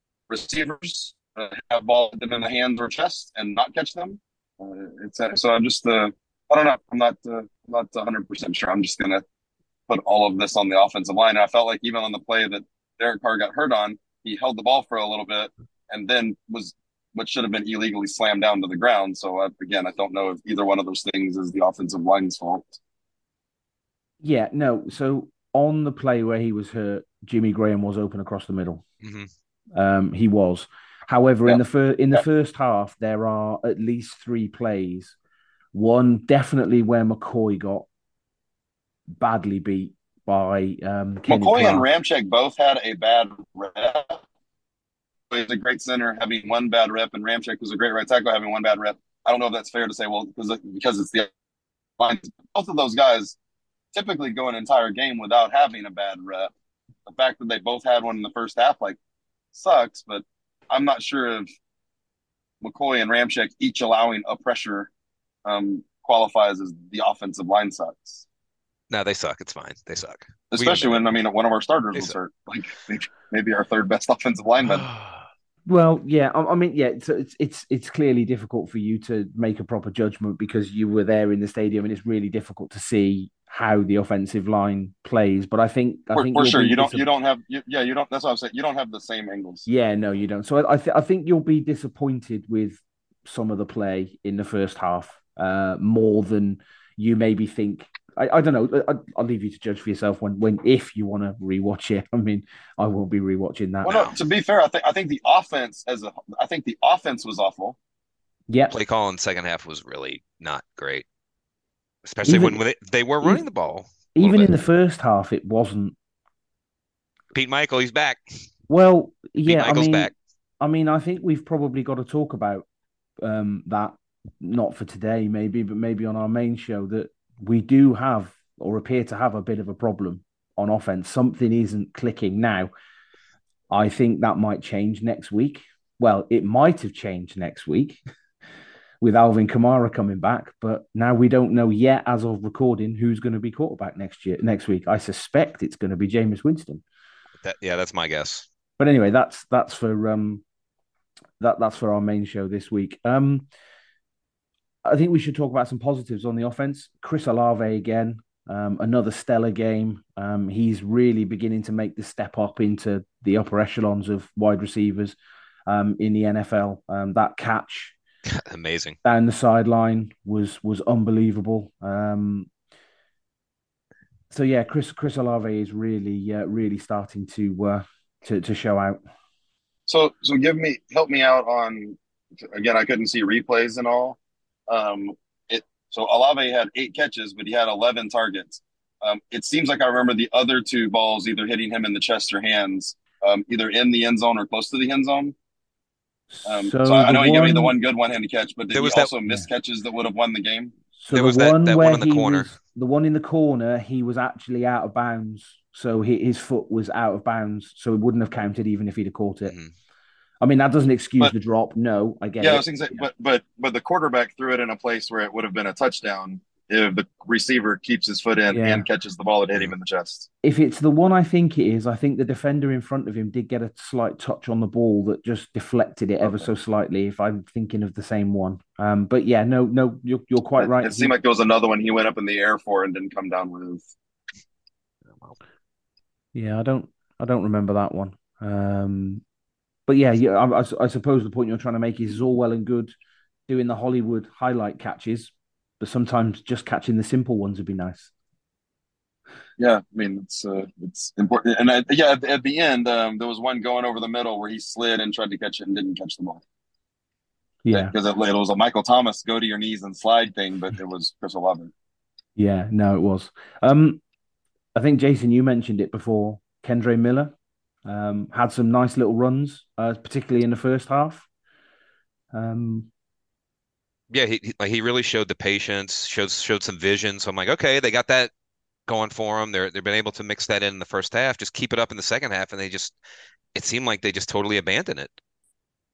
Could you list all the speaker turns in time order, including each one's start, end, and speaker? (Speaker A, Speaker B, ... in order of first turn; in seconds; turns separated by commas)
Speaker A: 0.3-9.2, Speaker A: 9.9-22.8, Speaker B: 24.2-28.8, Speaker C: 29.0-29.3, Speaker B: 29.8-35.2, Speaker B: 35.7-37.9, Speaker B: 39.2-41.9, Speaker A: 41.3-44.2, Speaker A: 45.3-51.3, Speaker A: 52.0-53.4, Speaker A: 53.9-56.5, Speaker A: 57.1-59.0, Speaker A: 59.5-61.5, Speaker A: 62.6-64.9, Speaker A: 65.4-68.2, Speaker C: 68.9-71.0, Speaker A: 70.5-74.9, Speaker C: 74.6-75.2, Speaker B: 75.7-87.0, Speaker A: 86.1-89.7, Speaker B: 89.7-104.1, Speaker A: 103.8-107.8, Speaker C: 103.9-104.2, Speaker B: 108.5-108.8, Speaker C: 108.7-111.0, Speaker C: 112.0-114.5, Speaker B: 112.2-112.6, Speaker B: 114.1-116.0, Speaker C: 117.3-118.2, Speaker B: 118.7-122.7, Speaker C: 119.5-120.1, Speaker B: 123.2-132.7, Speaker B: 133.7-138.0, Speaker B: 139.0-146.8, Speaker C: 147.4-148.5, Speaker B: 148.8-150.4, Speaker B: 151.4-153.4, Speaker B: 154.8-165.2, Speaker B: 165.7-167.9, Speaker C: 168.3-169.0, Speaker B: 169.0-172.5, Speaker B: 174.3-179.0, Speaker A: 179.9-184.2, Speaker A: 184.7-195.3, Speaker B: 196.3-197.7, Speaker A: 196.4-200.7, Speaker C: 198.7-199.1, Speaker B: 200.9-209.6, Speaker C: 201.1-202.5, Speaker C: 209.4-209.7, Speaker B: 210.4-213.1, Speaker A: 212.4-220.3, Speaker B: 218.5-218.8, Speaker B: 220.4-231.1, Speaker A: 230.6-233.9, Speaker C: 235.1-235.3, Speaker B: 236.3-239.2, Speaker B: 239.9-242.9, Speaker B: 243.5-248.1, Speaker A: 249.6-256.4, Speaker B: 257.6-257.9, Speaker A: 257.7-261.7, Speaker B: 262.4-264.0, Speaker B: 264.8-267.3, Speaker B: 267.9-271.3, Speaker B: 272.3-272.9, Speaker C: 274.1-278.3, Speaker C: 278.9-283.0, Speaker C: 283.5-285.1